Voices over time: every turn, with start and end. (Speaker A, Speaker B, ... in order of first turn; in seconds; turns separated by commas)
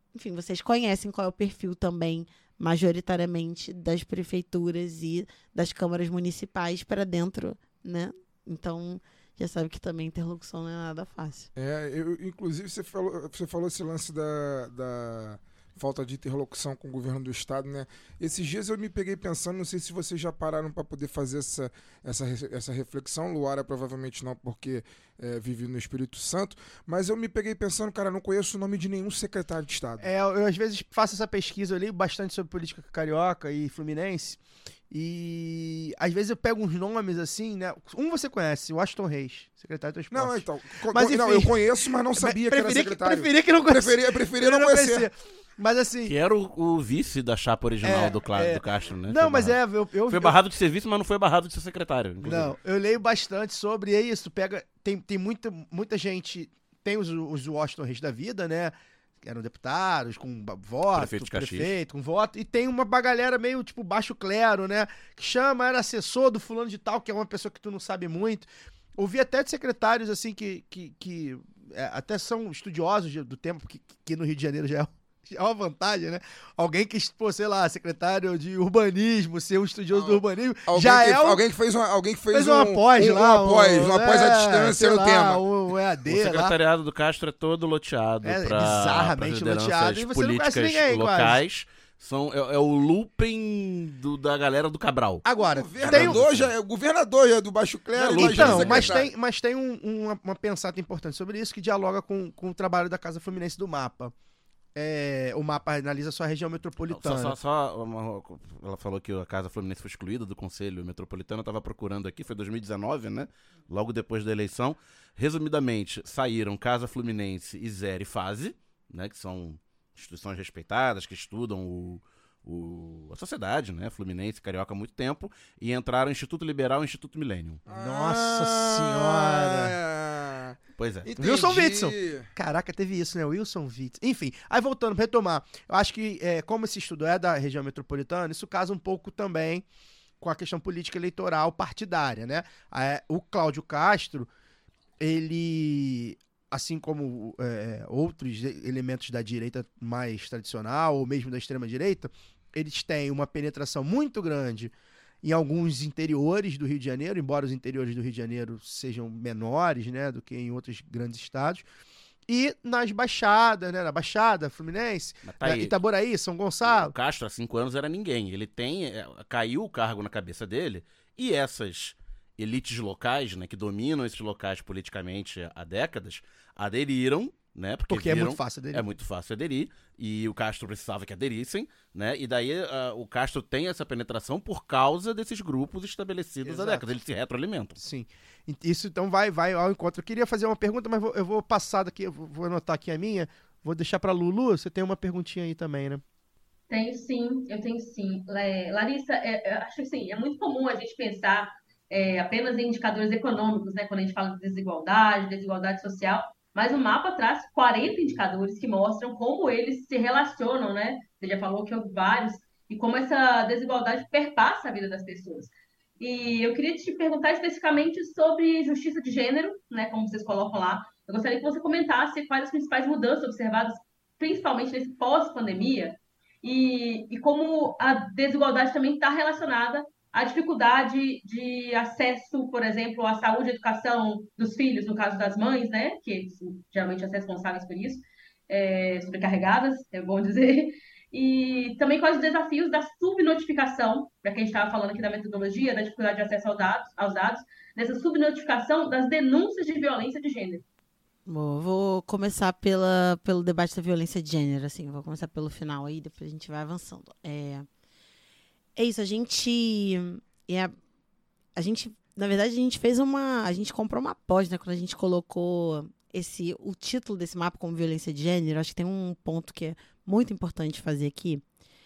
Speaker A: 0.1-11.5, Speaker B: 11.6-30.1, Speaker C: 30.0-46.1, Speaker B: 40.1-45.1, Speaker D: 46.0-52.5, Speaker C: 47.8-50.4, Speaker C: 52.2-81.4, Speaker D: 60.9-61.8, Speaker B: 79.9-85.4, Speaker C: 82.3-86.5, Speaker D: 86.1-95.2, Speaker C: 88.2-91.4, Speaker C: 95.2-96.2, Speaker B: 95.4-99.1, Speaker D: 95.8-96.5, Speaker D: 98.0-99.0, Speaker C: 98.1-104.1, Speaker C: 104.8-107.4, Speaker D: 106.9-127.6, Speaker C: 127.7-129.8, Speaker B: 127.7-132.3, Speaker D: 130.8-131.1, Speaker C: 131.2-139.7, Speaker C: 140.2-144.3, Speaker C: 145.0-161.7, Speaker C: 162.3-166.9, Speaker D: 165.2-165.8, Speaker D: 166.6-187.8, Speaker C: 177.9-178.8, Speaker C: 186.4-186.9, Speaker C: 187.8-196.0, Speaker E: 196.7-250.6, Speaker A: 251.3-257.7, Speaker A: 258.8-260.7, Speaker A: 261.6-271.4